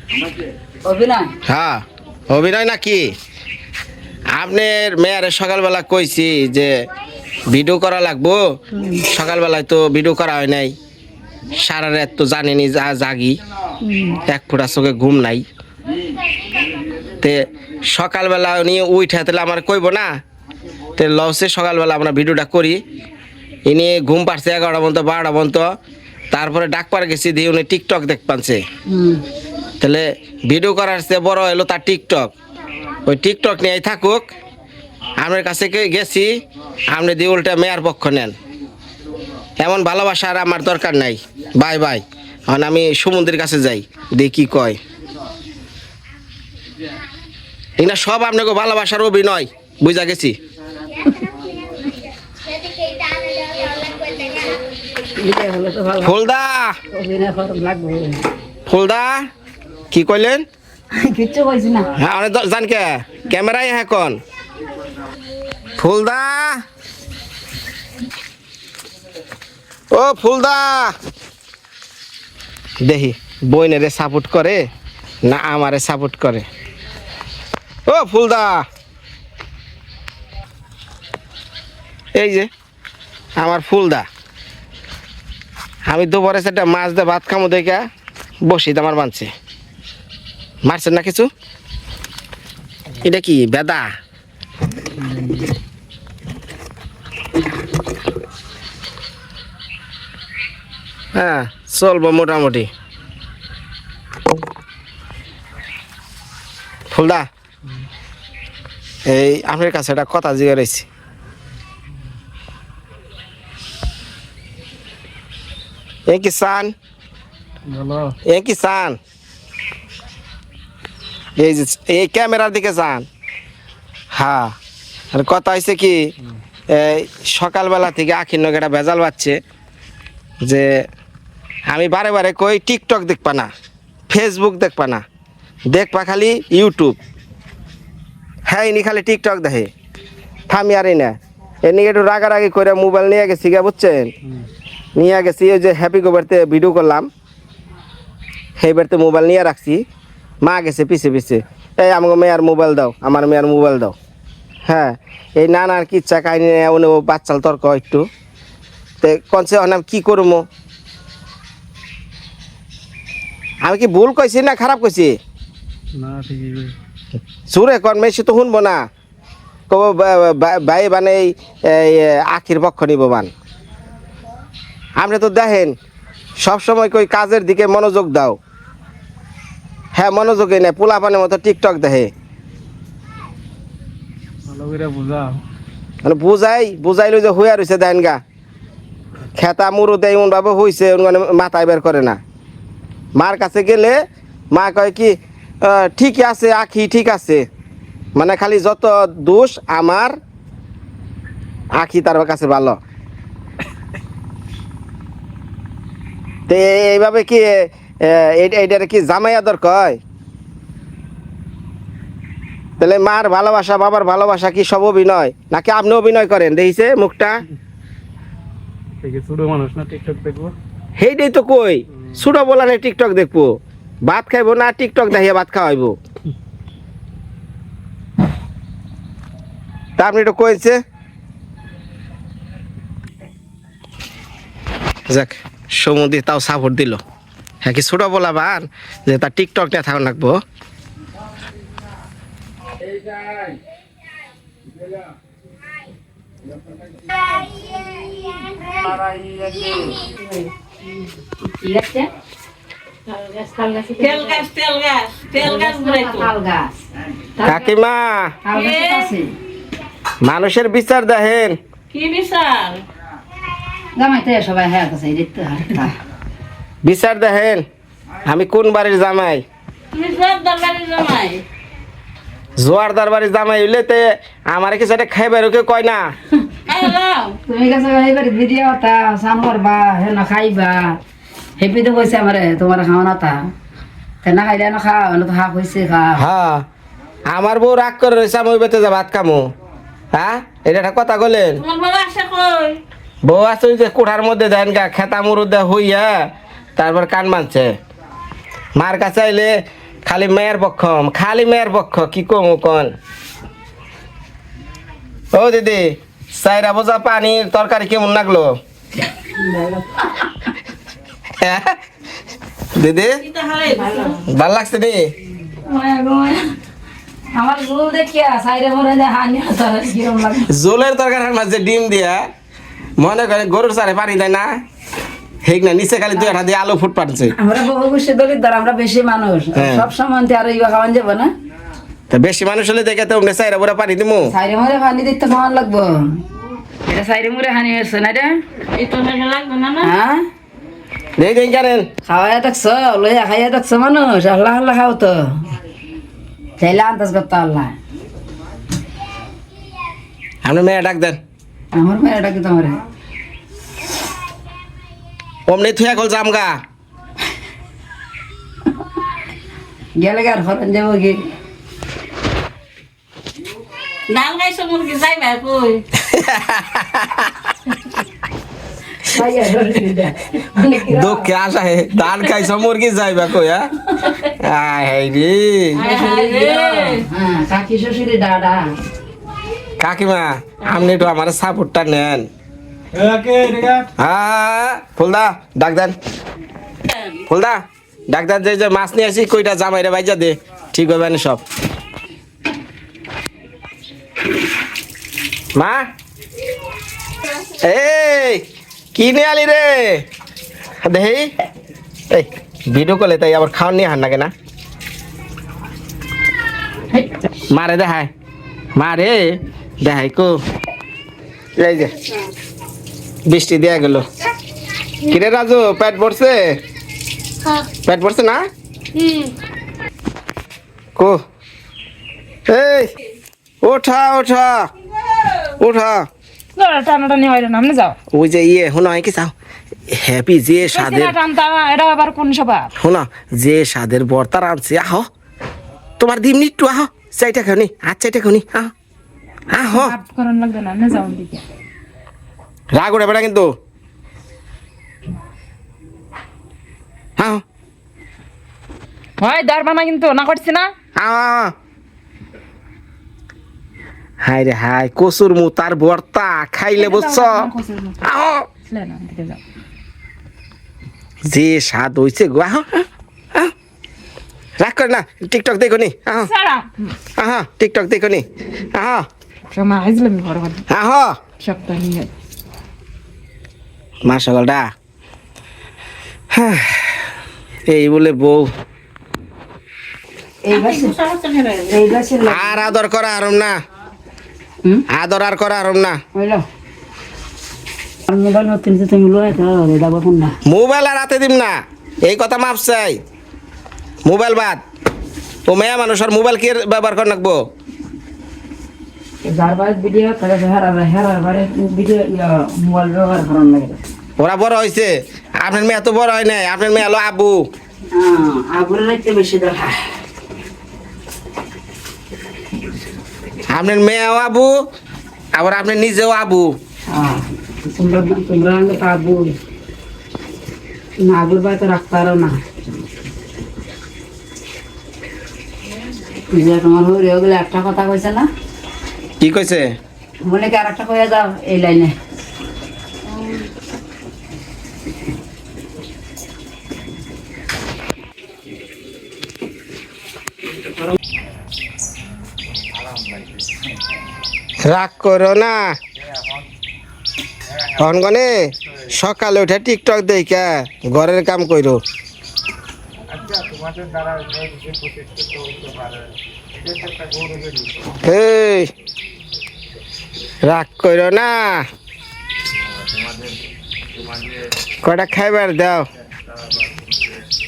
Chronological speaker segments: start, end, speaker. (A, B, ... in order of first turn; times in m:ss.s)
0:00.8-0:01.3 A
0:01.5-0:03.2 B
0:04.3-0:06.7 B
0:07.5-0:08.4 B
0:08.8-0:09.0 A
0:09.1-0:10.8 B
0:11.6-0:13.4 B
0:13.8-0:14.2 A
0:14.3-0:15.4 B
0:17.2-0:20.1 B
0:21.0-0:22.8 B
0:23.7-0:25.7 B
0:26.3-0:28.6 B
0:28.9-0:29.2 A
0:29.8-0:32.3 B
0:33.1-0:34.3 B
0:35.2-0:36.4 B
0:36.9-0:38.3 B
0:39.6-0:44.8 B
0:47.8-0:50.4 B
0:55.2-0:56.2 A
0:56.0-0:56.8 B
0:56.9-0:58.2 A
0:58.7-0:59.3 B
0:59.9-1:00.4 B
1:01.0-1:01.9 A
1:02.0-1:04.2 B
1:05.8-1:06.6 B
1:09.9-1:10.9 B
1:12.8-1:14.6 B
1:15.2-1:16.5 B
1:17.9-1:18.6 B
1:22.2-1:22.5 B
1:23.4-1:24.1 B
1:25.9-1:27.8 B
1:28.4-1:29.3 B
1:30.6-1:31.3 B
1:33.0-1:33.9 B
1:41.2-1:42.7 B
1:46.9-1:47.3 B
1:49.1-1:50.9 B
1:56.1-1:56.7 B
1:57.7-1:58.2 C
1:58.3-1:59.0 B
2:01.4-2:03.1 B
2:04.1-2:04.6 B
2:05.1-2:06.0 B
2:06.7-2:09.4 B
2:10.4-2:10.9 B
2:11.7-2:13.5 B
2:14.1-2:15.0 B
2:15.7-2:17.0 B
2:18.5-2:19.7 B
2:20.5-2:24.1 B
2:25.0-2:27.1 B
2:28.6-2:29.8 B
2:30.4-2:34.0 B
2:34.7-2:38.1 B
2:39.0-2:40.5 B
2:43.6-2:45.2 B
2:45.9-2:46.8 C
2:47.5-2:48.9 B
2:49.7-2:53.3 B
2:55.0-2:55.8 B
2:56.4-2:58.4 B
2:59.9-3:02.1 B
3:04.5-3:05.4 C
3:06.0-3:08.2 B
3:09.4-3:12.2 B
3:13.2-3:14.0 B
3:14.5-3:17.5 B
3:18.2-3:20.2 B
3:21.8-3:22.8 B
3:26.5-3:30.0 B
3:32.8-3:37.4 B
3:39.0-3:40.6 C
3:41.0-3:46.0 B
3:50.0-3:50.8 B
3:55.1-3:57.0 B
3:57.6-4:00.4 B
4:08.5-4:10.2 A
4:11.6-4:12.1 A
4:13.1-4:14.5 A
4:14.0-4:16.3 D
4:15.4-4:16.7 A
4:17.4-4:17.7 A
4:17.4-4:18.4 B
4:18.4-4:19.4 A
4:18.5-4:19.1 D
4:20.2-4:21.6 B
4:21.9-4:22.8 D
4:24.0-4:25.9 A
4:26.8-4:27.7 B
4:28.2-4:29.4 B
4:29.9-4:31.4 D
4:32.6-4:36.2 B
4:36.7-4:37.4 D
4:37.5-4:41.0 A
4:41.6-4:43.5 A
4:44.2-4:46.2 A
4:46.2-4:46.7 B
4:47.3-4:49.5 B
4:50.1-4:51.6 B
4:51.6-4:52.8 D
4:53.2-4:57.7 B
4:58.8-4:59.5 B
5:00.0-5:02.9 B
5:05.3-5:08.5 B
5:09.4-5:10.3 A
5:11.4-5:11.8 B
5:12.8-5:13.2 B
5:13.2-5:14.2 D
5:13.7-5:14.2 A
5:14.3-5:15.1 B
5:15.6-5:16.5 A
5:17.3-5:20.5 A
5:20.5-5:22.3 B
5:23.0-5:24.6 B
5:25.4-5:27.4 B
5:27.3-5:31.3 A
5:29.6-5:29.9 B
5:32.1-5:34.3 B
5:34.3-5:36.2 A
5:36.9-5:38.4 A
5:38.7-5:39.9 D
5:39.8-5:40.2 A
5:41.2-5:41.9 B
5:42.1-5:45.5 A
5:46.6-5:47.8 A
5:50.4-5:51.2 B
5:51.7-5:52.8 A
5:55.5-5:56.6 B
6:00.0-6:01.3 A
6:04.1-6:05.8 D
6:06.0-6:07.5 B
6:09.0-6:11.3 A
6:10.8-6:13.7 B
6:14.4-6:15.8 B
6:15.8-6:17.0 D
6:15.8-6:18.8 A
6:19.8-6:22.3 B
6:22.9-6:23.9 C
6:24.0-6:26.0 B
6:27.3-6:31.4 B
6:35.6-6:35.9 B
6:37.5-6:38.4 B
6:39.0-6:40.0 B
6:40.8-6:41.3 B
6:42.1-6:44.3 B
6:47.5-6:48.1 B
6:48.8-6:50.3 B
6:51.6-6:51.9 B
6:53.3-6:54.1 B
6:55.0-6:56.6 B
6:57.9-6:58.4 B
6:59.0-6:59.3 D
7:02.5-7:02.9 B
7:03.6-7:04.7 B
7:05.6-7:06.1 B
7:06.6-7:08.0 E
7:08.1-7:09.3 B
7:09.9-7:11.2 B
7:10.7-7:12.7 E
7:12.8-7:15.1 B
7:16.0-7:18.7 B
7:19.5-7:20.0 B
7:19.7-7:21.4 E
7:22.7-7:23.5 B
7:27.2-7:27.4 B
7:29.2-7:30.7 E
7:31.0-7:31.5 B
7:34.2-7:37.5 B
7:36.8-7:38.0 E
7:38.0-7:38.5 B
7:38.7-7:39.4 E
7:41.3-7:43.5 B
7:44.6-7:46.3 B
7:46.3-7:46.9 E
7:47.2-7:49.1 B
7:49.5-7:50.6 E
7:50.7-7:51.2 B
7:51.4-7:52.1 E
7:54.0-7:54.7 B
7:56.3-7:57.1 B
7:57.7-7:58.5 B
8:00.4-8:01.0 A
8:00.5-8:01.7 D
8:01.7-8:02.7 A
8:02.3-8:03.6 B
8:04.9-8:06.0 B
8:06.2-8:06.4 A
8:08.1-8:10.4 A
8:10.5-8:13.0 B
8:14.0-8:14.6 B
8:15.5-8:17.4 B
8:19.3-8:23.8 A
8:24.2-8:27.5 B
8:27.9-8:29.8 A
8:33.5-8:34.6 B
8:35.4-8:36.6 B
8:36.9-8:39.3 A
8:41.0-8:42.4 A
8:46.3-8:48.3 A
8:49.2-8:49.7 B
8:50.3-8:51.9 A
9:04.6-9:05.8 B
9:07.8-9:11.8 B
9:13.2-9:16.0 C
9:17.0-9:17.6 C
9:17.9-9:18.7 B
9:20.4-9:21.6 B
9:24.8-9:25.9 B